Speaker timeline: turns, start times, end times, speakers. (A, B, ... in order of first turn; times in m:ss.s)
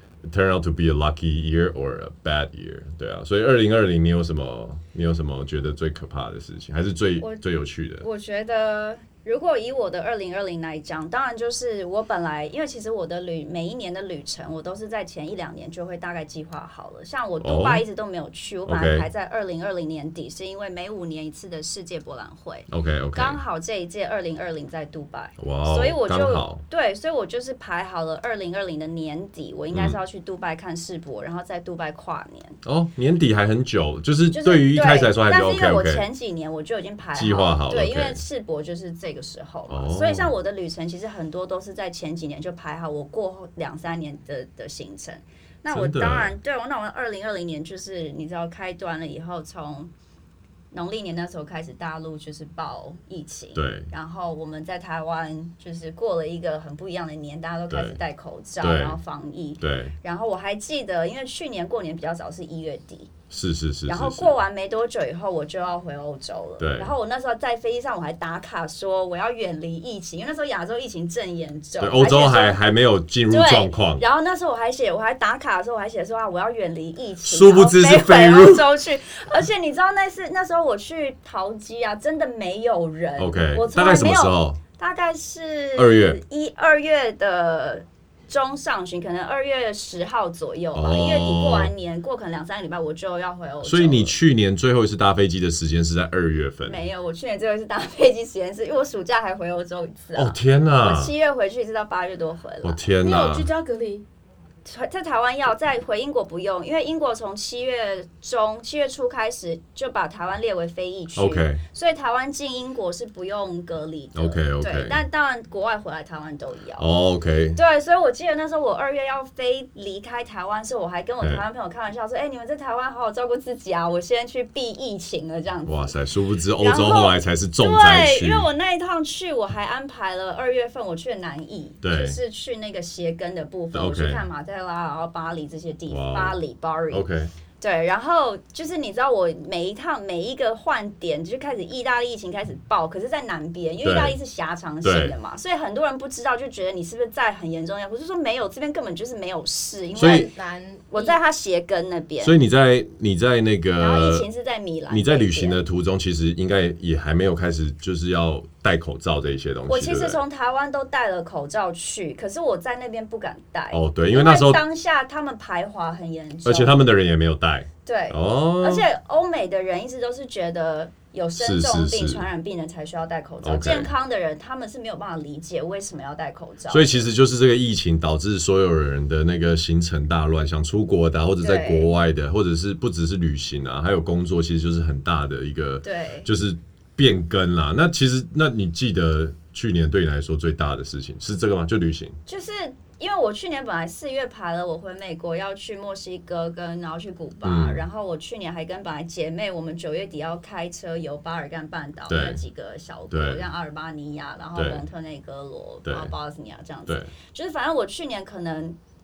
0:00.2-0:08.0 A
0:08.0-0:32.6 B
0:17.4-0:17.8 A
0:18.6-0:19.1 A
0:22.7-0:23.4 A
0:25.4-0:26.6 A
0:29.7-0:30.0 A
0:32.6-0:36.0 A
0:34.3-0:49.9 B
0:37.2-0:38.2 A
0:39.7-0:40.3 A
0:45.7-0:46.3 A
0:50.7-1:03.1 B
0:53.5-0:53.9 A
0:57.7-0:58.0 A
0:58.6-0:59.0 A
0:59.6-0:59.9 A
1:03.3-1:04.4 A
1:03.9-1:12.7 B
1:06.6-1:06.9 A
1:11.8-1:14.0 A
1:13.3-1:34.1 B
1:17.2-1:18.6 A
1:23.2-1:24.6 A
1:25.7-1:26.2 A
1:30.7-1:31.7 A
1:33.6-1:36.8 A
1:36.6-1:42.9 B
1:40.1-1:41.1 A
1:42.6-1:43.5 A
1:43.0-1:44.0 C
1:44.6-1:56.9 B
1:51.2-1:51.6 A
1:54.1-1:55.0 A
1:56.8-1:57.6 A
1:57.6-2:05.9 B
2:05.6-2:08.5 A
2:06.6-2:17.1 B
2:11.8-2:12.2 A
2:13.7-2:14.3 A
2:15.9-2:16.4 A
2:16.9-2:17.3 A
2:17.6-2:30.3 B
2:23.8-2:24.2 A
2:24.8-2:25.2 A
2:30.0-2:30.3 A
2:30.0-2:31.2 C
2:30.9-2:32.3 B
2:32.2-2:34.2 A
2:33.8-2:35.6 B
2:34.9-2:40.2 A
2:39.7-2:46.8 B
2:43.7-2:44.6 A
2:46.4-2:48.8 A
2:47.8-2:57.1 B
2:51.4-2:52.3 A
2:53.4-2:53.9 A
2:56.7-3:12.2 A
3:01.4-3:01.9 B
3:05.8-3:06.3 B
3:12.2-3:28.8 B
3:17.4-3:17.8 A
3:22.1-3:22.4 A
3:23.1-3:23.5 A
3:24.5-3:24.8 A
3:25.8-3:26.1 A